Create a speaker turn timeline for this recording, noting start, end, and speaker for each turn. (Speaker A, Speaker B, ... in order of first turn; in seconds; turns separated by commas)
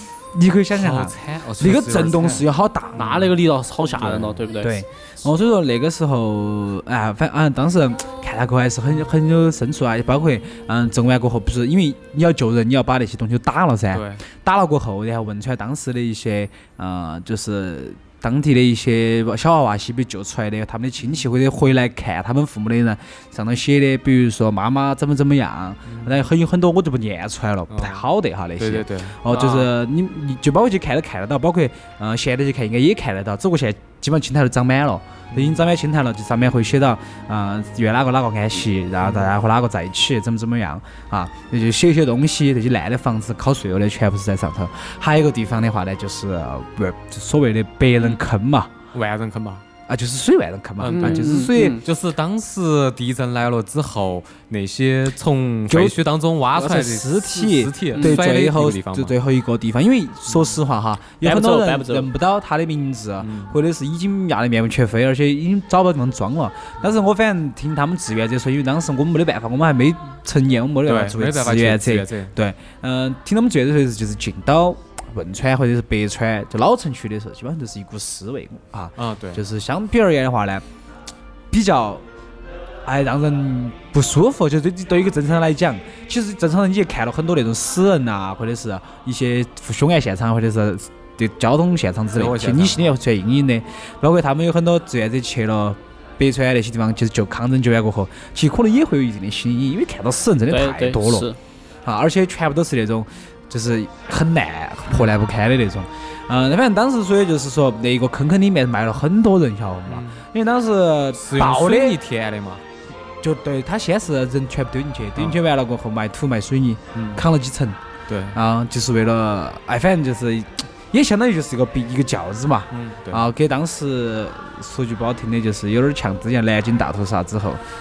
Speaker A: 0.3-3.2, Speaker B: 0.8-2.5, Speaker C: 3.0-4.8, Speaker B: 4.0-4.5, Speaker A: 4.6-48.7, Speaker B: 13.9-14.2, Speaker B: 25.9-26.2, Speaker B: 27.7-28.0, Speaker B: 28.6-29.7, Speaker B: 35.3-35.6, Speaker B: 39.0-39.3, Speaker B: 48.0-48.2, Speaker B: 48.9-49.6, Speaker A: 49.9-51.8, Speaker B: 50.8-59.1, Speaker C: 50.9-51.8, Speaker A: 55.7-80.6, Speaker C: 58.0-58.2, Speaker B: 60.3-60.6, Speaker C: 61.2-62.1, Speaker B: 63.2-63.5, Speaker B: 70.9-72.3, Speaker B: 79.0-79.4, Speaker A: 81.5-82.0, Speaker A: 82.8-101.3, Speaker B: 92.2-92.8, Speaker C: 100.5-101.4, Speaker A: 101.8-112.0, Speaker B: 109.9-110.2, Speaker B: 111.2-112.6, Speaker A: 113.2-117.8, Speaker B: 116.9-117.2, Speaker B: 118.1-118.4, Speaker A: 118.3-127.6, Speaker B: 122.7-123.2